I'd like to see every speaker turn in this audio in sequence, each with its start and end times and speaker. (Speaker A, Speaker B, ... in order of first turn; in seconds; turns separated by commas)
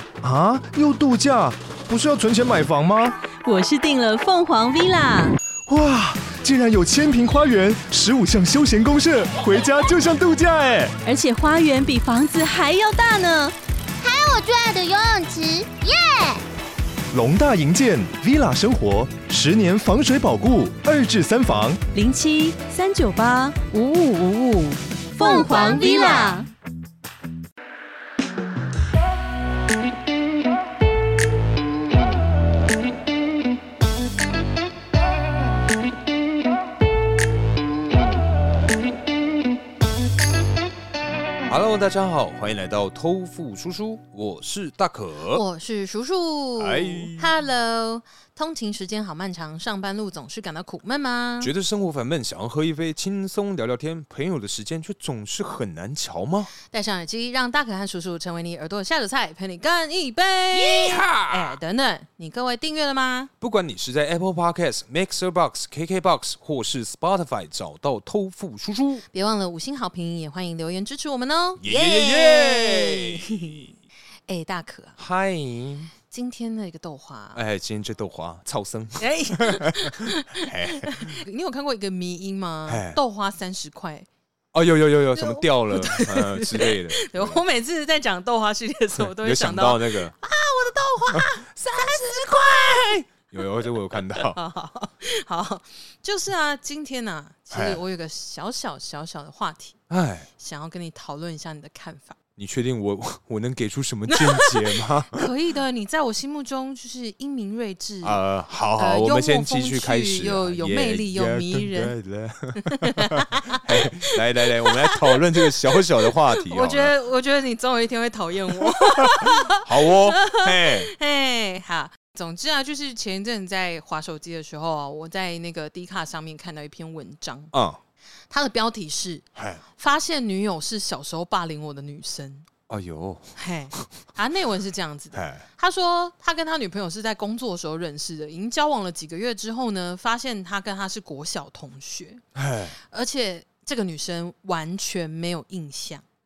Speaker A: 0.2-3.1, Speaker B: 3.4-5.4, Speaker A: 5.7-10.9, Speaker B: 11.0-13.5, Speaker C: 14.0-16.4, Speaker A: 17.1-21.8, Speaker B: 21.9-26.5, Speaker C: 25.2-26.4, Speaker D: 41.5-45.4, Speaker E: 45.3-51.5, Speaker D: 46.6-47.3, Speaker D: 51.4-56.5, Speaker E: 56.6-63.3, Speaker D: 60.5-61.6, Speaker D: 63.4-69.0, Speaker E: 69.1-73.6, Speaker D: 71.6-73.7, Speaker E: 74.3-75.0, Speaker D: 75.0-75.9, Speaker E: 76.1-77.4, Speaker D: 77.3-81.2, Speaker E: 79.0-84.1, Speaker D: 82.7-83.0, Speaker D: 84.5-87.4, Speaker E: 85.1-93.1, Speaker D: 89.0-90.1, Speaker D: 91.1-94.4, Speaker E: 94.2-99.8, Speaker D: 97.5-97.8, Speaker D: 99.9-100.3, Speaker E: 100.4-102.2, Speaker D: 102.4-105.3, Speaker E: 104.1-108.2, Speaker D: 108.0-116.9, Speaker E: 108.8-111.9, Speaker E: 112.6-127.5, Speaker D: 118.7-120.9, Speaker D: 127.5-127.8, Speaker E: 128.3-132.5, Speaker D: 129.3-129.6, Speaker D: 132.7-133.8, Speaker E: 133.3-142.2, Speaker D: 135.1-135.4, Speaker D: 142.3-142.8, Speaker E: 142.8-146.0